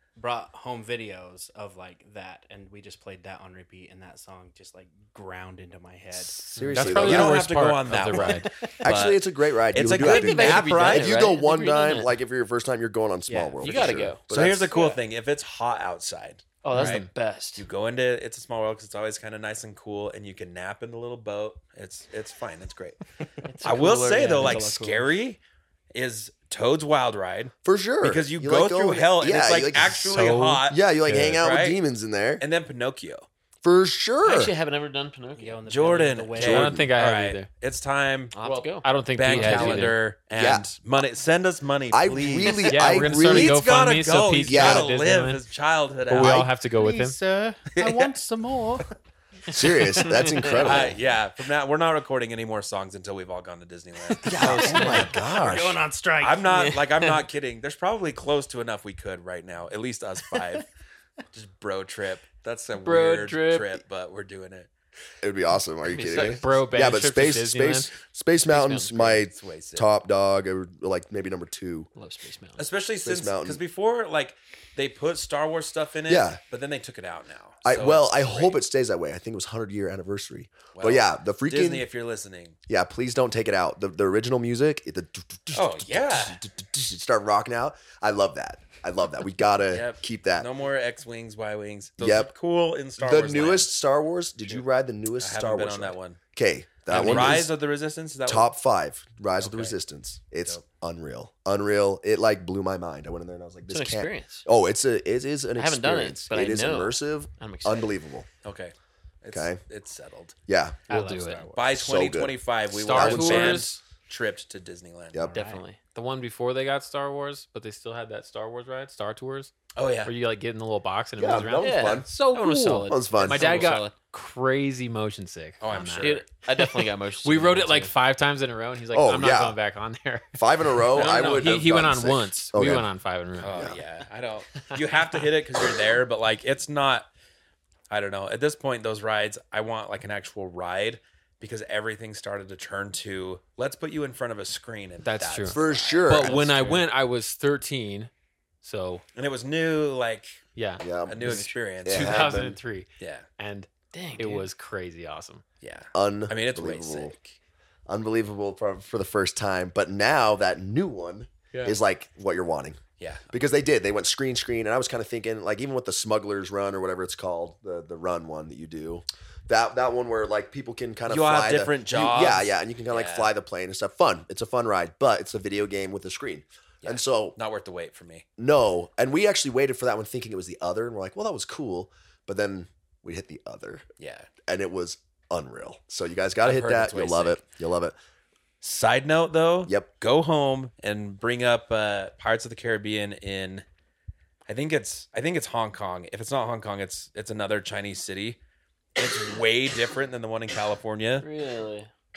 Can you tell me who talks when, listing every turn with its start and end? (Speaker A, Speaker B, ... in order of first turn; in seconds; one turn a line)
Speaker A: 0.2-7.2
Speaker B: 6.3-7.4
Speaker C: 6.5-8.5
Speaker D: 6.8-9.2
Speaker A: 8.1-8.7
Speaker B: 8.8-14.7
Speaker D: 9.7-11.2
Speaker E: 9.9-12.1
Speaker A: 13.3-14.1
Speaker E: 13.6-14.2
Speaker D: 14.3-17.0
Speaker A: 14.7-15.0
Speaker E: 16.6-17.6
Speaker C: 16.7-17.1
Speaker D: 17.6-23.0
Speaker A: 23.4-24.9
Speaker E: 23.4-25.0
Speaker D: 23.6-25.4
Speaker D: 25.9-31.8
Speaker B: 27.6-32.4
Speaker C: 29.8-31.4
Speaker D: 32.4-33.3
Speaker B: 33.6-34.5
Speaker E: 34.2-35.6
Speaker A: 35.4-36.8
Speaker D: 35.6-38.3
Speaker C: 36.4-37.5
Speaker B: 36.4-36.9
Speaker E: 38.3-39.9
Speaker C: 38.4-40.0
Speaker D: 39.1-46.5
Speaker B: 40.4-40.6
Speaker B: 41.9-43.6
Speaker C: 42.6-45.4
Speaker B: 44.4-44.9
Speaker C: 46.1-47.2
Speaker B: 46.2-46.5
Speaker A: 46.8-48.9
Speaker D: 47.7-48.1
Speaker B: 49.5-51.0
Speaker E: 50.1-50.6
Speaker D: 50.5-55.5
Speaker B: 54.2-55.8
Speaker E: 54.3-55.0
Speaker A: 54.4-56.6
Speaker D: 56.2-60.7
Speaker E: 56.5-57.1
Speaker D: 61.3-64.7
Speaker C: 62.8-63.5
Speaker E: 62.9-63.6
Speaker B: 65.2-71.9
Speaker E: 65.9-66.5
Speaker C: 66.1-67.9
Speaker E: 68.5-69.2
Speaker D: 69.1-69.9
Speaker E: 72.0-72.7
Speaker D: 72.6-78.5
Speaker B: 73.0-73.6
Speaker B: 76.1-76.4
Speaker B: 77.6-81.8
Speaker D: 80.7-82.6
Speaker B: 82.7-90.5
Speaker D: 85.5-86.4
Speaker D: 89.7-93.7
Speaker B: 92.0-92.3
Speaker B: 93.0-97.5
Speaker D: 95.2-96.2
Speaker D: 96.9-98.5
Speaker B: 98.3-108.3
Speaker D: 99.4-99.7
Speaker E: 103.7-104.5
Speaker E: 105.5-107.9
Speaker D: 108.4-110.3
Speaker B: 109.3-109.6
Speaker B: 110.5-110.8
Speaker C: 110.9-111.5
Speaker D: 110.9-115.3
Speaker A: 110.9-111.4
Speaker B: 111.7-112.4
Speaker C: 112.7-113.8
Speaker B: 112.9-113.7
Speaker A: 115.3-115.6
Speaker E: 115.3-115.8
Speaker C: 115.9-119.5
Speaker D: 119.7-120.1
Speaker C: 120.0-133.8
Speaker B: 121.2-122.1
Speaker E: 121.6-123.9
Speaker B: 122.8-123.7
Speaker D: 125.6-126.3
Speaker E: 126.0-127.9
Speaker B: 128.9-129.6
Speaker B: 130.3-132.9
Speaker D: 130.9-131.3
Speaker D: 133.4-137.1
Speaker C: 134.5-135.2
Speaker D: 137.9-146.9
Speaker C: 145.0-148.1
Speaker B: 145.5-146.5
Speaker C: 148.6-149.0
Speaker D: 149.1-150.4
Speaker C: 150.5-155.4
Speaker B: 150.8-152.6
Speaker D: 151.1-152.4
Speaker D: 153.0-153.2
Speaker E: 153.9-154.4
Speaker D: 155.6-157.3
Speaker B: 155.9-157.1
Speaker B: 157.9-162.8
Speaker D: 163.0-163.2
Speaker B: 163.3-177.3
Speaker D: 171.1-173.3
Speaker D: 176.8-178.2
Speaker B: 178.4-183.8
Speaker D: 184.0-184.3
Speaker B: 184.4-187.9
Speaker D: 186.4-187.4
Speaker D: 188.6-193.6
Speaker B: 189.7-189.9
Speaker D: 194.5-198.4
Speaker D: 199.0-201.3
Speaker E: 201.2-201.9